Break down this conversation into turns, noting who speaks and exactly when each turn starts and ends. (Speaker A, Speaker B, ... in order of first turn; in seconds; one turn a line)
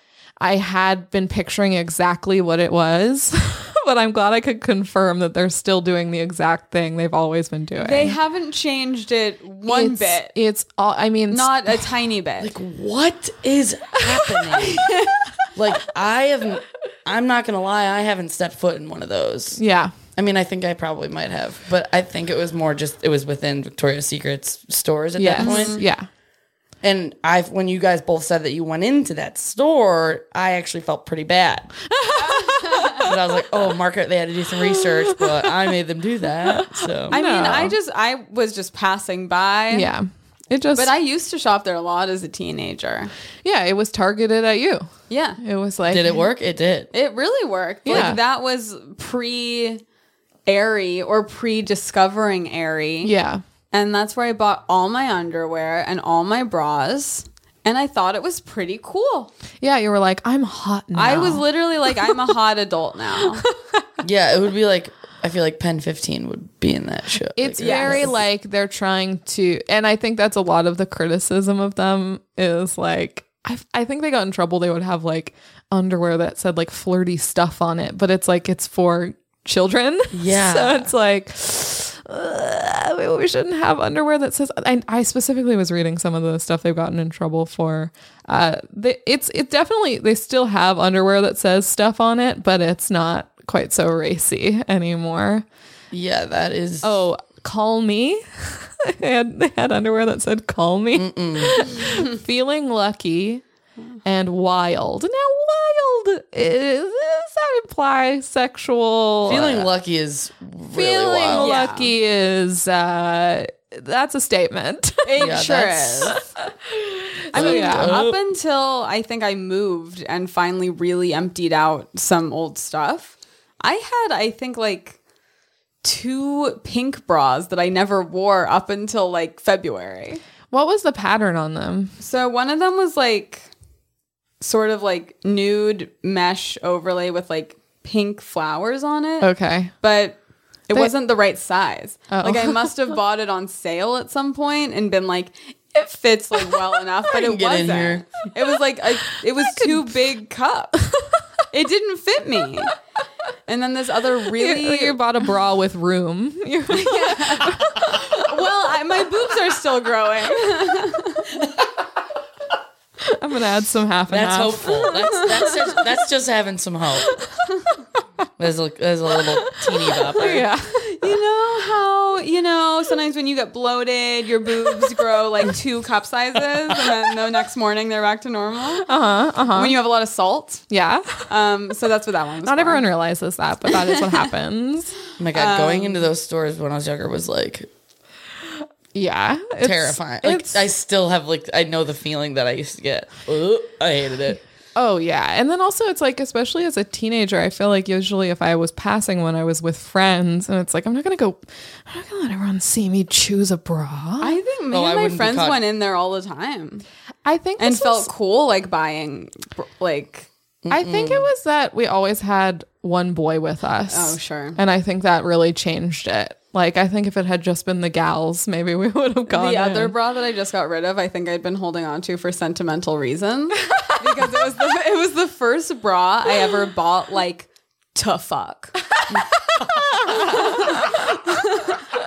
Speaker A: 0.4-8.2
Speaker B: 7.8-10.3
Speaker A: 9.7-11.9
Speaker B: 11.3-12.5
Speaker C: 12.4-14.9
Speaker B: 14.6-15.3
Speaker C: 15.5-19.6
Speaker A: 19.6-19.9
Speaker C: 20.1-25.8
Speaker A: 25.2-26.1
Speaker B: 25.4-25.8
Speaker C: 26.8-31.7
Speaker A: 31.9-33.1
Speaker B: 32.2-33.1
Speaker C: 33.0-37.2
Speaker A: 34.8-35.4
Speaker A: 36.5-37.7
Speaker B: 37.1-39.9
Speaker A: 39.7-40.9
Speaker B: 40.7-43.1
Speaker A: 43.4-44.9
Speaker B: 45.1-45.4
Speaker A: 45.4-46.2
Speaker C: 45.9-46.9
Speaker B: 46.9-49.8
Speaker A: 47.9-48.2
Speaker B: 50.5-53.1
Speaker A: 53.0-53.4
Speaker B: 53.7-59.3
Speaker A: 59.6-62.3
Speaker B: 60.9-63.4
Speaker A: 63.4-63.8
Speaker C: 64.0-68.2
Speaker A: 67.4-95.4
Speaker B: 67.6-68.1
Speaker C: 80.1-80.9
Speaker C: 95.9-97.1
Speaker A: 96.8-103.4
Speaker C: 100.9-101.8
Speaker A: 104.0-109.7
Speaker C: 109.2-111.6
Speaker A: 110.7-115.4
Speaker B: 111.3-111.9
Speaker B: 115.0-116.3
Speaker C: 115.2-116.2
Speaker A: 116.1-118.0
Speaker B: 117.3-125.0
Speaker C: 117.3-118.2
Speaker B: 125.8-130.2
Speaker A: 130.5-131.9
Speaker B: 132.0-133.5
Speaker B: 134.4-150.8
Speaker A: 139.2-139.7
Speaker A: 142.1-142.7
Speaker C: 147.1-148.1
Speaker A: 149.4-150.1
Speaker B: 151.5-152.7
Speaker B: 153.5-155.0
Speaker A: 154.4-157.9
Speaker B: 156.7-161.3
Speaker A: 163.0-165.6
Speaker C: 164.1-167.1
Speaker B: 165.1-165.5
Speaker A: 167.1-167.8
Speaker C: 168.4-170.5
Speaker A: 169.2-171.1
Speaker B: 170.7-178.9
Speaker A: 178.8-179.8
Speaker B: 179.5-180.6
Speaker A: 180.7-181.3
Speaker B: 181.3-182.8
Speaker A: 182.4-184.9
Speaker B: 183.7-184.2
Speaker C: 185.2-187.7
Speaker B: 185.3-186.1
Speaker A: 188.9-190.6
Speaker C: 189.6-194.4
Speaker A: 194.8-204.4
Speaker B: 204.2-206.8
Speaker C: 204.7-205.6
Speaker A: 207.2-208.1
Speaker B: 207.6-210.3
Speaker C: 210.6-211.3
Speaker A: 210.7-219.9
Speaker B: 213.9-214.6
Speaker B: 219.3-228.8
Speaker A: 223.7-224.3
Speaker C: 229.1-229.8
Speaker A: 229.5-231.2
Speaker B: 230.2-231.8